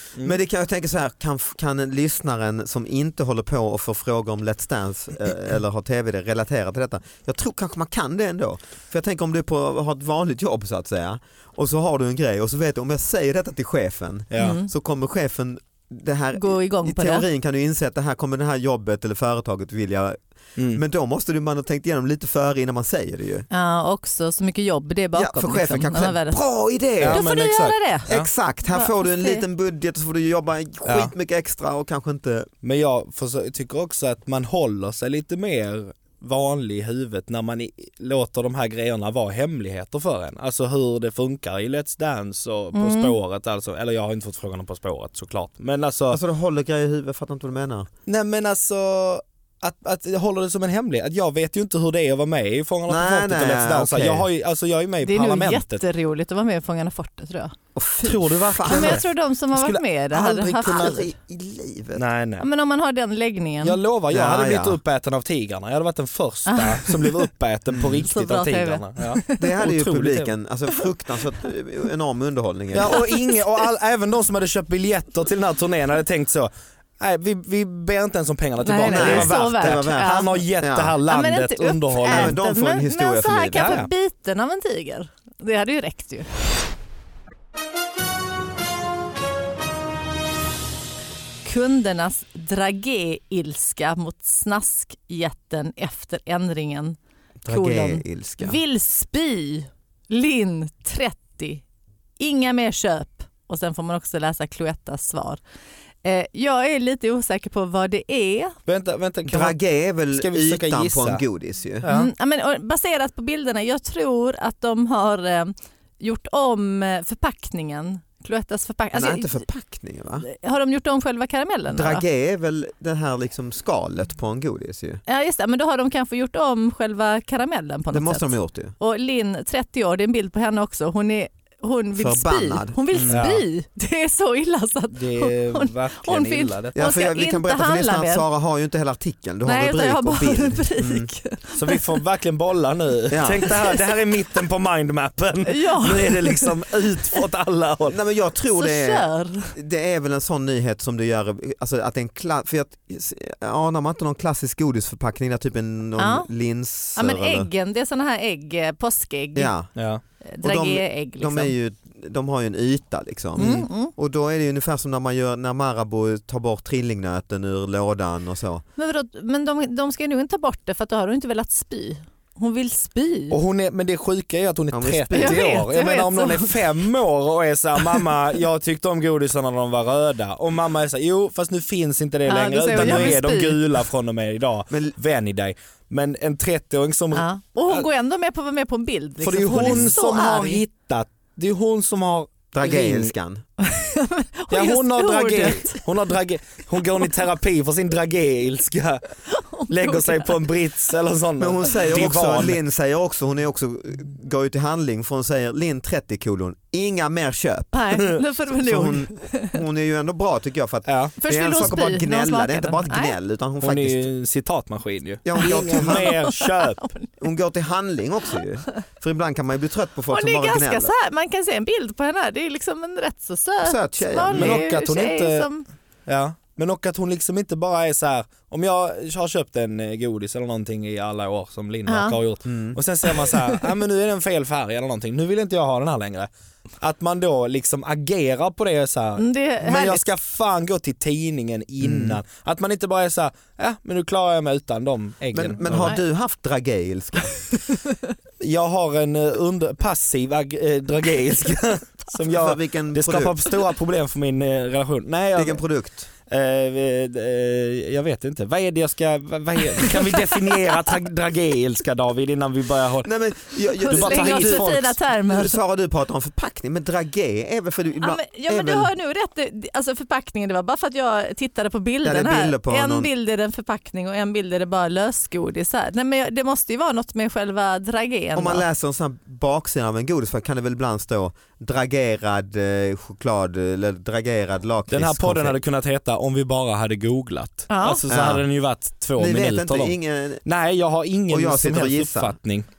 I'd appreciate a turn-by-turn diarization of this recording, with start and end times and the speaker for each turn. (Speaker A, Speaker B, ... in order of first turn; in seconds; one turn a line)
Speaker A: 0.2-23.5
Speaker B: 14.3-14.6
Speaker C: 14.4-14.7
Speaker C: 16.4-17.3
Speaker C: 23.5-26.4
Speaker A: 25.1-27.2
Speaker B: 27.0-28.3
Speaker C: 27.1-28.1
Speaker A: 28.1-32.5
Speaker C: 28.7-29.4
Speaker B: 30.9-31.1
Speaker B: 32.6-46.2
Speaker C: 42.7-43.1
Speaker A: 46.1-47.9
Speaker B: 48.1-55.8
Speaker A: 52.9-54.3
Speaker C: 55.0-57.5
Speaker A: 57.8-59.0
Speaker B: 58.0-60.9
Speaker C: 58.7-61.1
Speaker A: 60.5-62.0
Speaker B: 62.0-62.5
Speaker C: 62.4-63.8
Speaker B: 63.6-70.3
Speaker A: 64.1-64.8
Speaker C: 66.5-67.2
Speaker A: 67.7-68.0
Speaker C: 68.0-69.6
Speaker A: 69.4-73.0
Speaker B: 72.7-82.4
Speaker C: 72.9-73.4
Speaker C: 78.6-80.3
Speaker A: 78.9-81.0
Speaker C: 81.1-86.3
Speaker A: 82.0-83.8
Speaker B: 83.5-83.9
Speaker C: 91.4-97.0
Speaker A: 97.4-98.6
Speaker C: 97.5-101.6
Speaker C: 102.2-105.4
Speaker C: 106.0-108.6
Speaker B: 108.7-109.6
Speaker A: 109.3-111.8
Speaker B: 110.1-111.2
Speaker B: 111.8-112.1
Speaker C: 111.9-119.5
Speaker A: 118.9-120.3
Speaker C: 120.2-122.0
Speaker A: 121.7-125.0
Speaker C: 125.1-138.2
Speaker A: 127.9-128.8
Speaker A: 132.0-133.2
Speaker B: 133.1-133.4
Speaker B: 134.9-136.8
Speaker A: 136.7-141.1
Speaker C: 139.4-141.8
Speaker B: 141.6-148.0
Speaker A: 143.1-143.6
Speaker C: 145.5-146.6
Speaker A: 147.9-157.5
Speaker C: 148.6-149.5
Speaker C: 156.0-156.3
Speaker C: 156.9-159.5
Speaker A: 159.4-159.7
Speaker B: 159.8-160.0
Speaker C: 160.2-161.5
Speaker A: 160.4-168.6
Speaker C: 163.4-163.9
Speaker B: 163.4-163.7
Speaker C: 168.8-173.4
Speaker B: 173.3-187.9
Speaker A: 174.7-175.6
Speaker C: 175.1-176.7
Speaker C: 182.3-183.6
Speaker A: 182.8-183.1
Speaker C: 187.1-190.6
Speaker B: 189.2-193.1
Speaker A: 189.5-189.9
Speaker A: 192.5-193.4
Speaker C: 193.6-195.8
Speaker B: 194.5-199.1
Speaker C: 199.3-200.4
Speaker B: 199.7-202.6
Speaker A: 201.4-207.8
Speaker C: 207.7-209.6
Speaker A: 208.6-214.1
Speaker B: 210.9-211.1
Speaker C: 211.2-213.2
Speaker B: 213.6-216.8
Speaker A: 215.2-216.1
Speaker C: 215.4-217.1
Speaker A: 217.2-220.9
Speaker C: 220.1-225.7
Speaker A: 223.6-224.6
Speaker B: 224.3-225.5
Speaker B: 226.1-236.3
Speaker C: 231.9-232.2
Speaker A: 232.5-232.8
Speaker C: 233.1-233.6
Speaker B: 236.8-245.9
Speaker C: 239.2-240.0
Speaker A: 241.8-242.2
Speaker A: 245.3-247.4
Speaker B: 248.4-255.6
Speaker A: 252.3-253.4
Speaker A: 255.3-256.1
Speaker B: 256.3-263.1
Speaker A: 263.0-264.7
Speaker C: 263.9-265.6
Speaker B: 263.9-265.0
Speaker A: 265.3-268.9
Speaker C: 268.0-278.6
Speaker A: 272.0-273.1
Speaker A: 278.4-285.6
Speaker B: 284.9-292.7
Speaker C: 287.7-288.0
Speaker A: 288.1-288.4
Speaker A: 289.2-290.4
Speaker A: 291.3-292.4